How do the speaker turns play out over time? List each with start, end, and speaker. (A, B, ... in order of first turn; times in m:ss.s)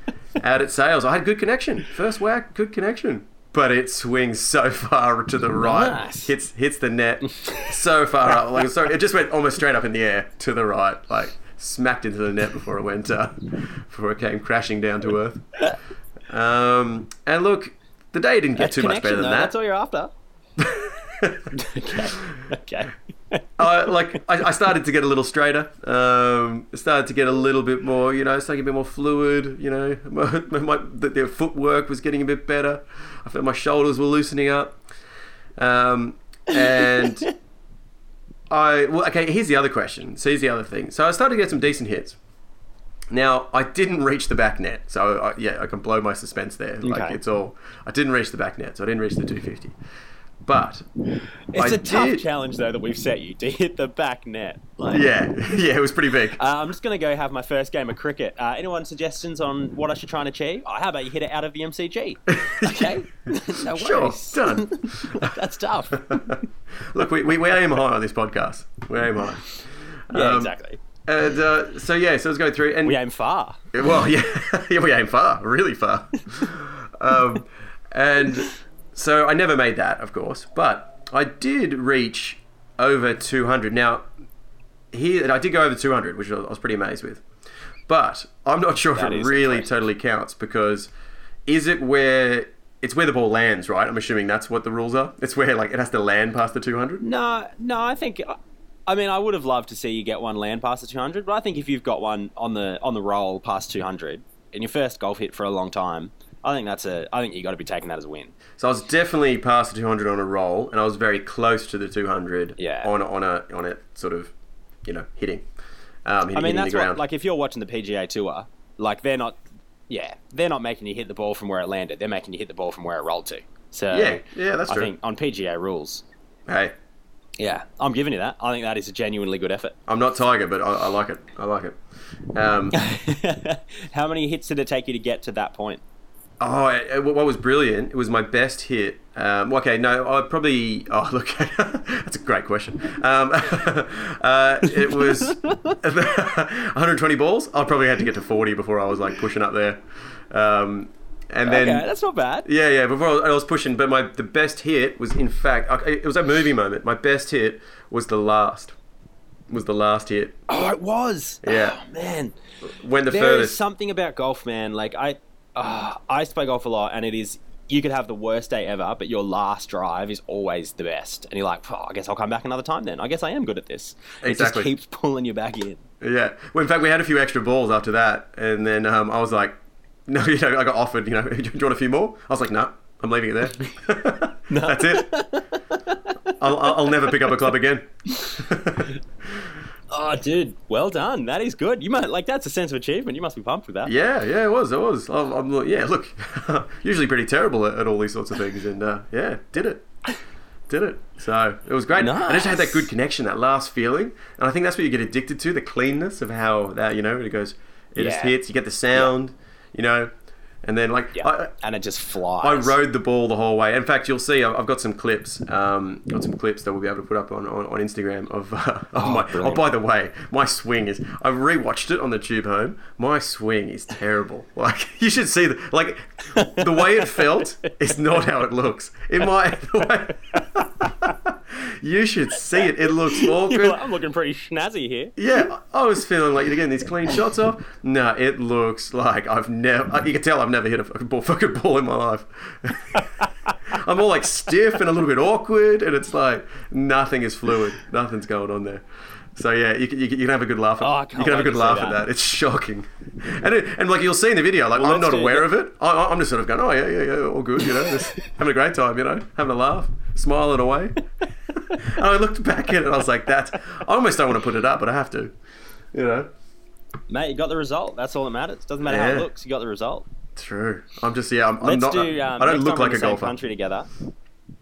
0:00.4-0:15.6 A
0:05.6-0:06.3 B
0:07.3-0:07.8 B
0:16.3-0:19.5 A
0:18.6-0:20.1 B
0:20.6-0:22.0 A
0:21.5-0:23.9 B
0:23.6-0:34.8 A
0:35.6-0:37.3 A
0:36.5-0:37.3 B
0:38.5-0:42.2 A
0:43.1-0:49.8 A
0:46.8-0:47.2 B
0:50.4-0:50.9 A
0:51.5-0:55.1 B
0:51.6-0:52.2 A
0:54.9-0:56.4 A
0:56.4-1:06.4 B
1:02.3-1:03.0 A
1:03.6-1:05.4 A
1:05.9-1:13.0 A
1:10.1-1:10.8 B
1:12.8-1:13.7 B
1:13.7-1:24.1 A
1:24.9-1:27.2 A
1:27.9-1:30.9 A
1:29.0-1:29.7 B
1:31.5-1:37.0 A
1:37.0-1:48.4 B
1:48.6-1:54.3 A
1:52.6-1:52.9 B
1:54.8-1:55.5 A
1:56.1-1:57.0 A
1:56.3-2:06.0 B
2:03.9-2:04.9 A
2:06.5-2:06.8 A
2:07.4-2:09.8 B
2:09.9-2:11.8 A
2:12.3-2:12.8 A
2:12.7-2:15.8 B
2:16.4-2:31.9 A
2:24.8-2:25.8 B
2:31.4-2:32.5 B
2:32.4-2:38.8 A
2:39.5-2:40.4 A
2:40.5-2:42.4 B
2:41.4-2:41.8 A
2:42.6-2:43.6 A
2:43.1-2:55.9 B
2:54.2-2:54.7 A
2:56.0-3:05.1 A
3:04.5-3:07.5 B
3:06.4-3:09.5 A
3:09.9-3:13.9 B
3:13.9-3:19.8 A
3:20.7-3:30.1 A
3:21.9-3:22.9 B
3:28.0-3:28.4 B
3:30.6-3:31.5 A
3:31.2-3:32.8 B
3:32.4-3:53.8 A
3:39.0-3:39.6 B
3:46.3-3:47.9 B
3:50.3-3:51.2 B
3:52.5-3:55.4 B
3:55.2-4:03.1 A
4:02.9-4:03.6 B
4:03.7-4:25.4 A
4:10.8-4:12.0 B
4:14.8-4:15.5 B
4:17.7-4:18.3 B
4:25.9-4:26.3 A
4:27.1-4:30.1 B
4:28.8-4:29.3 A
4:30.4-4:33.4 A
4:31.6-4:33.9 B